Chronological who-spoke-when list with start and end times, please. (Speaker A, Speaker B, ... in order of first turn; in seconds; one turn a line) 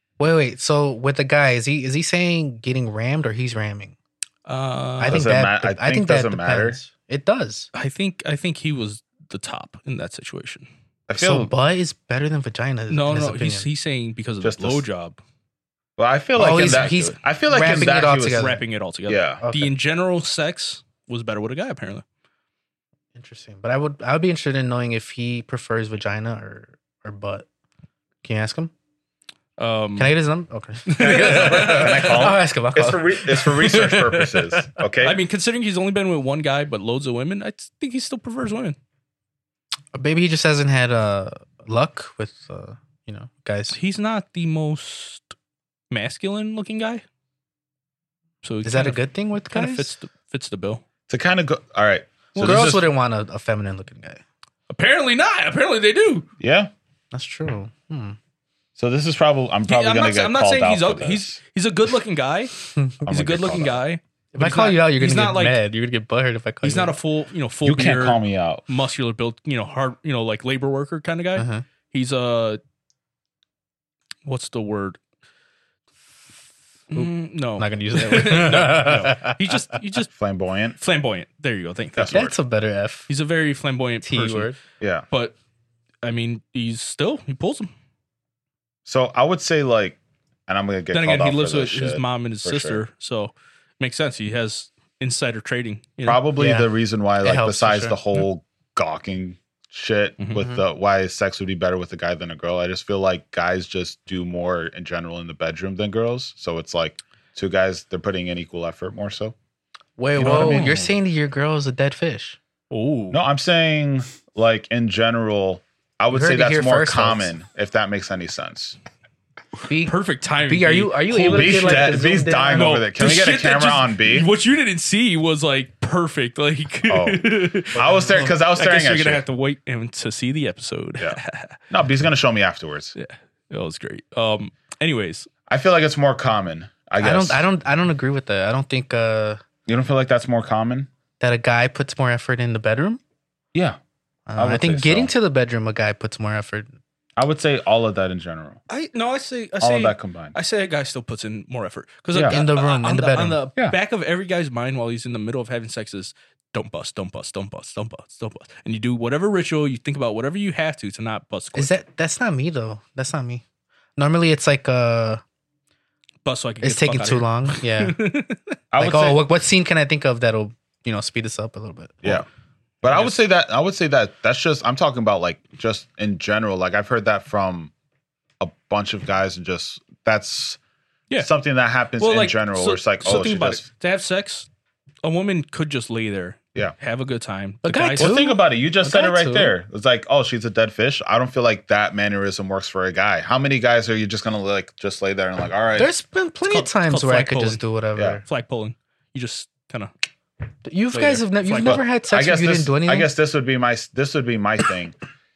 Speaker A: 0.2-4.0
Speaker B: 4.5-5.2
Speaker A: 5.0-7.7
Speaker C: 5.1-6.8
Speaker B: 7.8-10.7
Speaker C: 11.1-11.5
Speaker A: 11.2-13.7
Speaker B: 12.9-15.2
Speaker C: 14.4-14.8
Speaker C: 16.0-18.5
Speaker A: 16.4-18.6
Speaker B: 16.7-17.1
Speaker B: 18.1-22.0
Speaker C: 19.1-19.4
Speaker A: 19.4-19.8
Speaker A: 23.1-27.5
Speaker A: 28.2-28.7
Speaker B: 29.6-30.1
Speaker A: 30.0-34.8
Speaker B: 30.9-32.1
Speaker C: 31.0-35.2
Speaker B: 35.0-38.8
Speaker A: 39.9-43.8
Speaker B: 43.7-45.2
Speaker B: 45.9-47.0
Speaker B: 48.4-49.0
Speaker A: 48.6-49.9
Speaker B: 49.5-50.8
Speaker C: 51.1-52.8
Speaker B: 52.4-52.8
Speaker A: 52.4-54.2
Speaker B: 54.7-56.3
Speaker C: 56.4-56.7
Speaker A: 57.1-58.2
Speaker C: 58.8-61.4
Speaker B: 59.7-65.6
Speaker A: 62.8-63.0
Speaker C: 63.0-63.8
Speaker A: 64.3-66.9
Speaker B: 66.6-72.6
Speaker C: 67.7-68.6
Speaker A: 71.4-71.7
Speaker B: 74.2-75.0
Speaker B: 76.9-80.1
Speaker A: 76.9-79.5
Speaker C: 80.2-80.8
Speaker B: 80.8-82.2
Speaker C: 82.0-82.3
Speaker A: 82.1-83.1
Speaker B: 83.1-84.5
Speaker A: 84.0-84.6
Speaker B: 86.0-87.7
Speaker C: 88.9-92.8
Speaker B: 90.9-96.2
Speaker C: 96.0-109.3
Speaker A: 96.4-96.7
Speaker A: 97.2-98.0
Speaker A: 110.0-112.4
Speaker C: 110.2-110.7
Speaker B: 110.2-110.9
Speaker B: 112.7-113.2
Speaker C: 113.1-118.8
Speaker A: 116.1-117.3
Speaker A: 119.7-122.8
Speaker B: 119.8-131.6
Speaker C: 121.3-124.3
Speaker C: 126.9-129.2
Speaker A: 127.9-128.3
Speaker C: 131.7-132.9
Speaker B: 133.0-135.3
Speaker C: 135.5-137.5
Speaker A: 137.0-139.4
Speaker C: 139.7-140.9
Speaker A: 141.2-143.0
Speaker C: 143.5-143.8
Speaker A: 144.3-146.7
Speaker C: 144.4-145.1
Speaker C: 147.2-148.6
Speaker B: 148.7-161.7
Speaker C: 149.6-150.3
Speaker C: 152.1-152.4
Speaker A: 152.2-153.4
Speaker A: 161.6-163.4
Speaker A: 164.0-165.2
Speaker B: 166.2-168.6
Speaker A: 166.6-168.0
Speaker C: 168.7-169.2
Speaker A: 168.8-172.2
Speaker C: 172.8-177.7
Speaker B: 172.9-173.1
Speaker C: 178.4-180.6
Speaker C: 181.2-183.7
Speaker B: 182.0-184.5
Speaker B: 185.0-188.2
Speaker A: 187.6-189.5
Speaker C: 188.0-195.9
Speaker A: 195.8-198.2
Speaker B: 196.5-197.6
Speaker B: 198.2-199.9
Speaker A: 200.7-203.1
Speaker B: 200.9-201.8
Speaker C: 201.7-204.9